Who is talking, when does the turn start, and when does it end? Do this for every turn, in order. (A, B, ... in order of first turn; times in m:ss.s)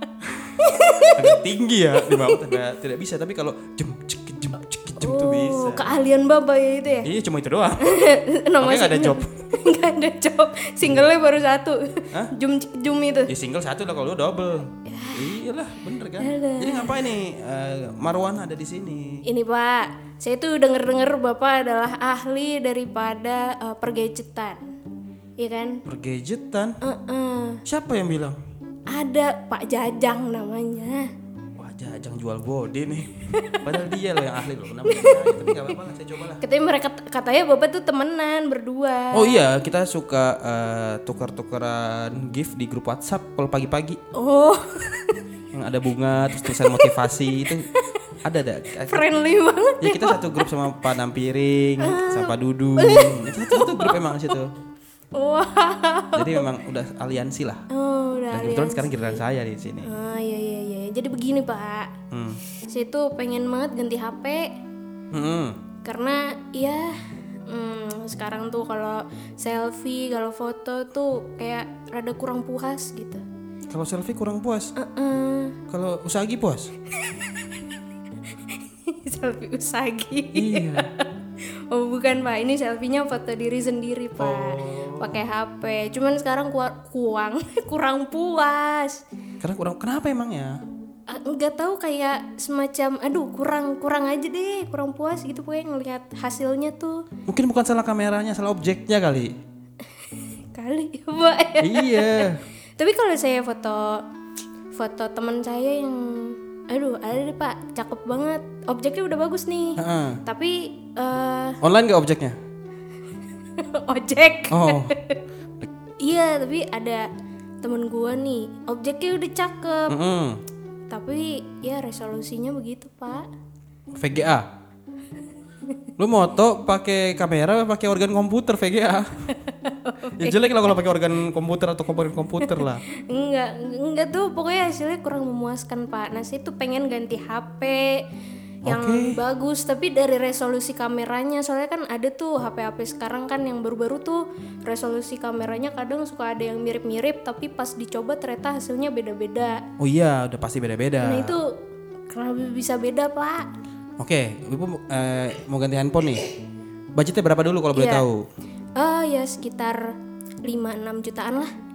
0:00.2-0:00.6 A
0:00.6-0:02.6 B
0:01.2-0:05.9 A
0:05.0-0:07.1 B
0:07.0-0:08.0 A
0:07.8-0:13.3 B
0:08.6-0:09.5 A
0:13.3-0:19.2 A
0:14.8-0:15.4 B
0:16.2-0:17.1 B
0:19.2-0:24.7 B
0:25.4-0:25.8 B
0:25.8-0:26.8 A
0:26.8-0:27.6 B
0:27.6-0:28.4 A
0:28.9-0:31.1 B
0:31.6-0:36.4 A
0:33.3-0:33.7 B
0:34.8-0:35.7 B
0:36.4-0:39.4 B
0:39.1-0:44.0 A
0:44.1-0:45.2 B
0:45.5-0:47.7 A
0:46.4-0:48.0 B
0:48.2-0:49.0 A
0:48.8-0:50.5 B
0:49.8-0:54.5 A
0:51.8-0:54.4 B
0:55.1-0:56.5 B
0:56.1-0:57.6 A
0:57.7-0:59.2 B
0:58.3-0:59.9 A
0:59.8-1:01.9 B
1:02.1-1:02.4 A
1:02.6-1:04.5 B
1:05.1-1:05.6 A
1:05.8-1:13.2 B
1:13.7-1:14.7 A
1:14.8-1:15.6 B
1:15.7-1:16.7 A
1:16.9-1:21.1 B
1:20.3-1:20.9 A
1:21.7-1:29.0 B
1:24.2-1:25.2 A
1:29.4-1:30.6 A
1:31.1-1:37.0 B
1:37.3-1:39.3 A
1:39.9-1:44.0 B
1:41.6-1:42.4 A
1:44.7-1:51.6 B
1:49.8-1:50.2 A
1:51.6-1:52.4 A
1:53.5-1:55.2 B
1:54.5-1:54.9 A
1:56.0-1:57.1 B
1:57.6-2:00.0 B
1:59.9-2:00.4 A
2:00.9-2:03.3 B
2:04.0-2:04.5 A
2:06.0-2:09.4 A
2:09.3-2:10.5 B
2:10.2-2:12.8 A
2:12.4-2:18.0 B
2:18.6-2:19.2 A
2:18.6-2:29.6 B
2:29.8-2:31.4 A
2:31.0-2:31.5 B
2:32.1-2:33.5 B
2:34.0-2:36.3 A
2:37.0-2:38.2 A
2:37.7-2:38.0 B
2:38.8-2:39.9 B
2:40.4-2:41.5 B